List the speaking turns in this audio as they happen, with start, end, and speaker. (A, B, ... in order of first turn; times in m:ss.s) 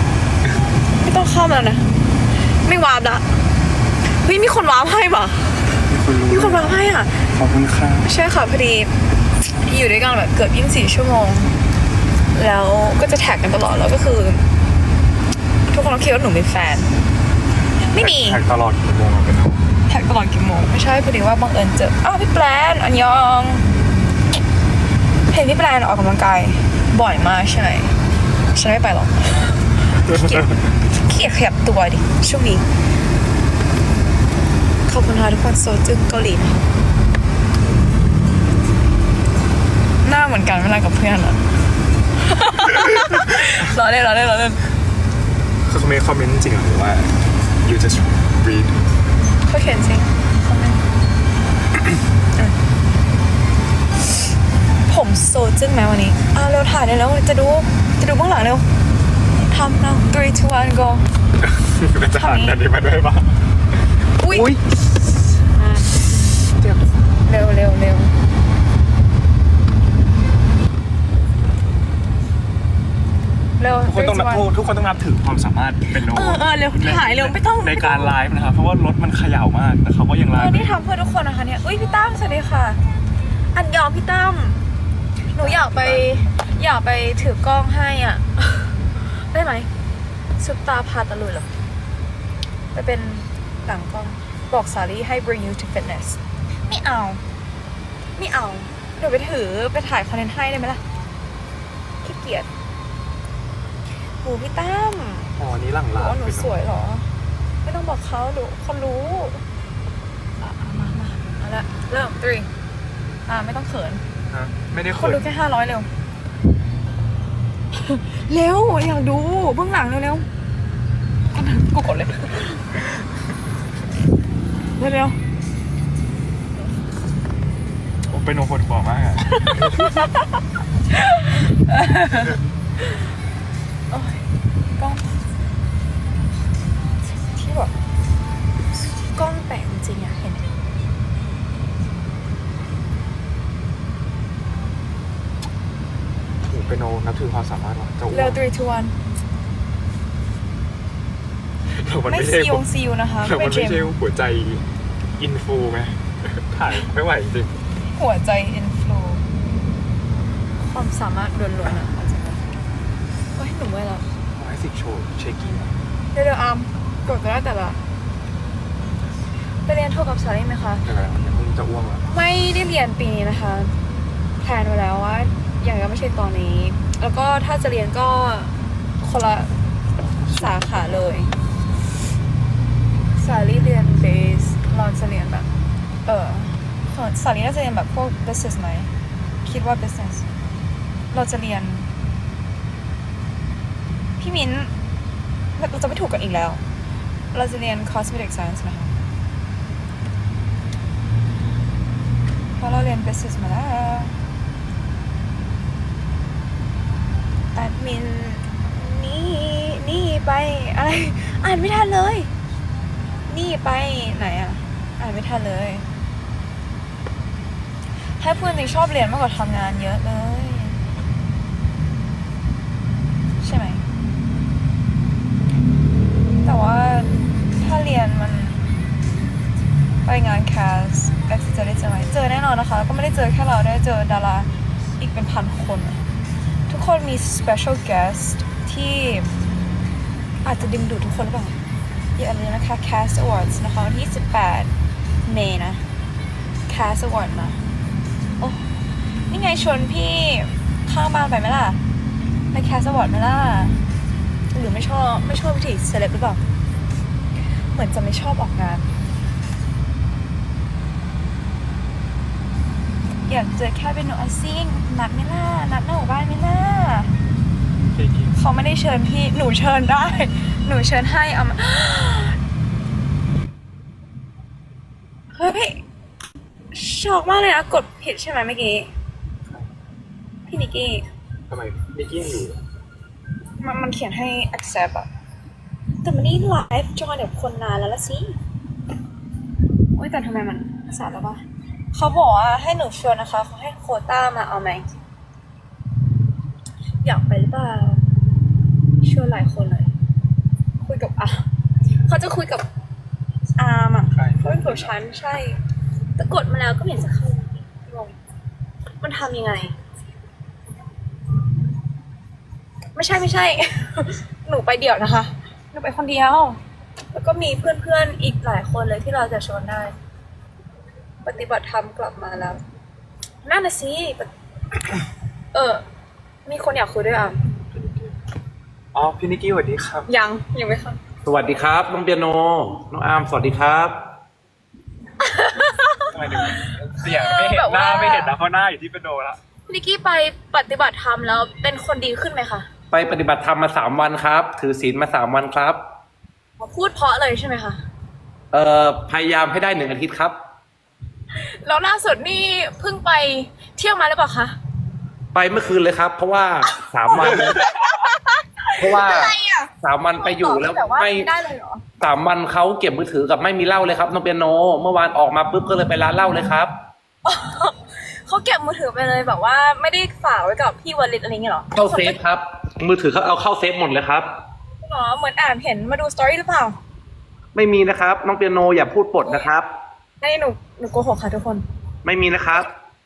0:01.0-0:03.3 A
0:04.1-0:05.7 A
0:05.9-0:06.8 B
0:06.3-0:07.1 A
0:07.3-0:08.1 B
0:08.0-0:11.6 A
0:12.3-0:14.5 A
0:15.7-0:16.9 A
0:17.9-0:18.4 A
0:17.9-0:19.6 B
0:19.9-0:23.7 A
0:25.3-0:28.0 A
0:28.5-0:32.7 A
0:34.9-0:36.6 A
0:40.0-0:41.5 A
0:42.2-0:44.6 A
0:45.6-0:48.8 B
0:49.5-0:50.8 A
0:54.9-0:58.7 A
0:59.5-1:01.1 A
1:01.4-1:03.4 B
1:02.1-1:02.6 A
1:04.2-1:04.6 A
1:04.3-1:04.6 B
1:05.5-1:05.9 A
1:06.6-1:06.8 B
1:07.2-1:08.2 A
1:13.6-1:14.5 A
1:13.9-1:20.9 B
1:16.0-1:18.2 A
1:20.4-1:22.8 A
1:23.5-1:24.6 A
1:25.3-1:26.2 B
1:25.3-1:29.7 A
1:30.4-1:31.5 A
1:32.7-1:37.2 A
1:38.2-1:40.8 A
1:42.0-1:42.5 A
1:44.2-1:45.3 A
1:45.4-1:46.6 B
1:46.0-1:47.1 A
1:47.6-1:49.4 A
1:50.4-1:52.5 A
1:53.3-1:54.0 A
1:54.3-1:55.3 B
1:54.9-1:55.9 A
1:57.7-2:00.3 A
2:01.3-2:02.8 A
2:04.8-2:05.2 A
2:08.1-2:10.0 B
2:09.4-2:10.1 A
2:11.0-2:12.4 A
2:13.9-2:15.2 A
2:17.2-2:17.7 A
2:18.7-2:20.5 A
2:26.4-2:28.4 B
2:28.1-2:29.0 A
2:31.7-2:32.6 B
2:32.1-2:33.9 A
2:33.2-2:34.7 B
2:35.2-2:37.6 B
2:37.9-2:39.2 A
2:40.6-2:42.5 A
2:43.4-2:44.1 A
2:44.4-2:45.8 B
2:46.1-2:47.8 A
2:49.6-2:50.8 A
2:50.8-2:52.1 B
2:52.0-2:53.8 A
2:54.4-2:59.6 A
3:00.2-3:01.1 B
3:00.3-3:01.3 A
3:03.2-3:05.5 A
3:06.1-3:08.9 A
3:09.4-3:10.3 A
3:11.1-3:11.9 A
3:14.2-3:14.7 A
3:15.6-3:16.6 A
3:17.3-3:19.0 A
3:22.6-3:24.2 A
3:27.6-3:32.3 A
3:33.3-3:35.9 A
3:38.2-3:40.8 A
3:43.4-3:43.9 A
3:46.4-3:48.7 A
3:50.0-3:56.0 A
3:56.7-3:59.3 A
4:00.4-4:01.6 A
4:02.2-4:04.7 A
4:05.2-4:05.8 A
4:06.7-4:07.6 A
4:08.4-4:08.7 A
4:09.3-4:11.8 A
4:12.5-4:13.8 A
4:14.5-4:16.4 A
4:17.6-4:18.9 A
4:23.3-4:27.2 A
4:27.9-4:28.4 B
4:28.4-4:32.4 A
4:35.3-4:35.8 A
4:36.7-4:38.9 A
4:40.5-4:41.1 A
4:41.5-4:42.6 B
4:43.6-4:45.1 A
4:46.0-4:48.4 A
4:49.9-4:55.0 A
4:57.0-4:58.1 A
4:59.0-4:59.9 A
5:00.8-5:01.5 A
5:02.1-5:02.7 A
5:03.6-5:05.6 A
5:04.1-5:04.9 B
5:06.2-5:08.2 A
5:09.0-5:09.8 A
5:13.0-5:16.6 A
5:17.1-5:20.0 A
5:21.2-5:22.6 A
5:23.4-5:24.3 A
5:25.5-5:25.8 A
5:26.4-5:27.5 A
5:27.7-5:28.2 B
5:28.9-5:30.1 B
5:30.1-5:31.0 A
5:31.2-5:34.0 C
5:35.2-5:38.4 A
5:36.1-5:39.4 B
5:39.7-5:42.7 A
5:42.9-5:45.8 C
5:46.6-5:47.8 A
5:48.5-5:50.4 C
5:51.4-5:54.6 A
5:55.3-5:57.7 C
5:57.2-6:01.8 A
5:58.8-6:01.3 C
6:02.0-6:06.8 C
6:07.2-6:12.2 A
6:11.7-6:14.3 C
6:14.8-6:16.8 A
6:17.6-6:19.7 C
6:20.2-6:21.7 A
6:22.0-6:22.7 C